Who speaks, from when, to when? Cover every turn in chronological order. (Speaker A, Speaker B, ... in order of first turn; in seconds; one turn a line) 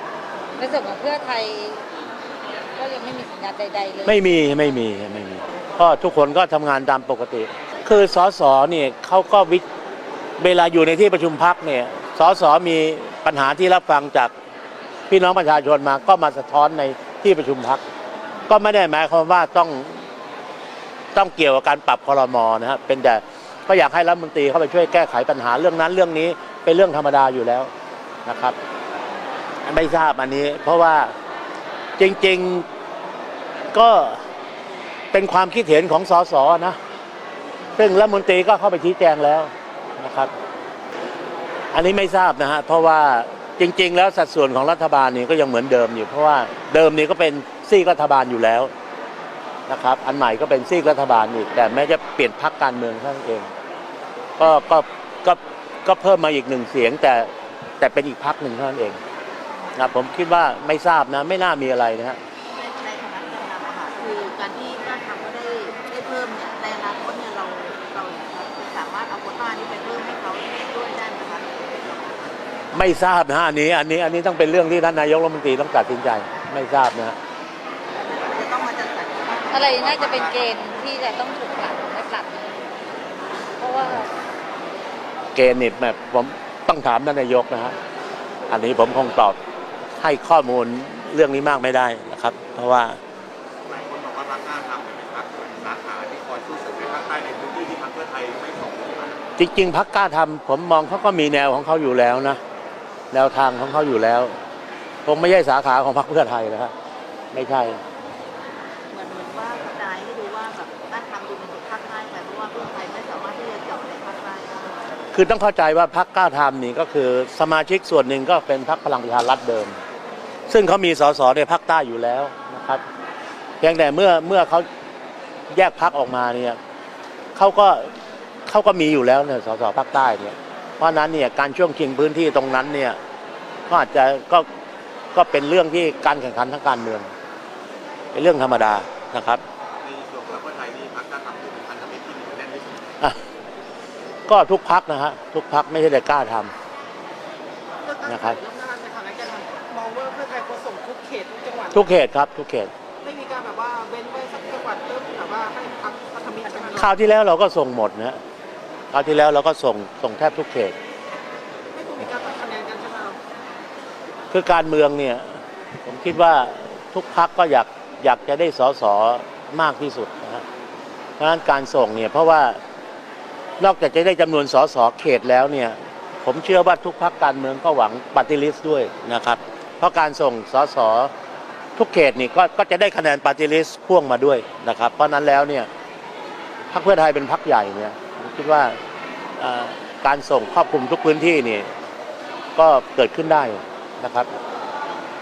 Speaker A: 0.6-1.9
Speaker A: 2.8-4.5
Speaker B: 4.0-9.7
Speaker B: 10.4-14.3
Speaker B: 15.1-17.8
Speaker B: 18.5-20.0
Speaker B: 21.1-27.7
Speaker B: 28.3-28.6
Speaker B: 29.6-31.1
Speaker B: 32.0-32.7
Speaker B: 33.7-34.2
Speaker B: 35.1-36.8
Speaker B: 37.8-40.3
Speaker B: 41.7-48.7
Speaker B: 49.7-53.5
Speaker B: 54.4-59.0
Speaker B: 59.8-62.2
Speaker C: 62.5-72.3
Speaker B: 72.7-77.2
Speaker C: 77.9-80.5
Speaker A: 79.5-82.6
Speaker A: 83.6-84.1
Speaker B: 85.3-87.8
Speaker B: 88.5-89.4
Speaker B: 90.0-93.0
Speaker D: 93.7-99.2
Speaker B: 99.4-102.4
Speaker B: 103.1-104.3
Speaker B: 105.1-106.7
Speaker B: 107.3-107.8
Speaker C: 108.9-114.9
Speaker B: 115.1-119.8
Speaker B: 120.5-122.8
Speaker B: 123.6-124.7
Speaker B: 125.5-126.6
Speaker B: 127.4-127.9
Speaker B: 128.5-133.0
Speaker B: 133.7-134.5
Speaker B: 135.1-137.1
Speaker B: 138.1-139.4
Speaker D: 139.8-142.9
Speaker B: 144.3-146.5
Speaker E: 147.8-151.9
Speaker B: 148.1-148.4
Speaker B: 151.7-152.7
Speaker E: 153.0-156.9
Speaker B: 156.8-158.2
Speaker B: 158.9-160.8
Speaker E: 161.7-163.2
Speaker B: 164.3-170.4
Speaker B: 171.2-172.6
Speaker B: 173.6-181.1
Speaker B: 181.8-185.7
Speaker B: 186.7-188.8
Speaker B: 189.4-191.7
Speaker B: 192.6-194.3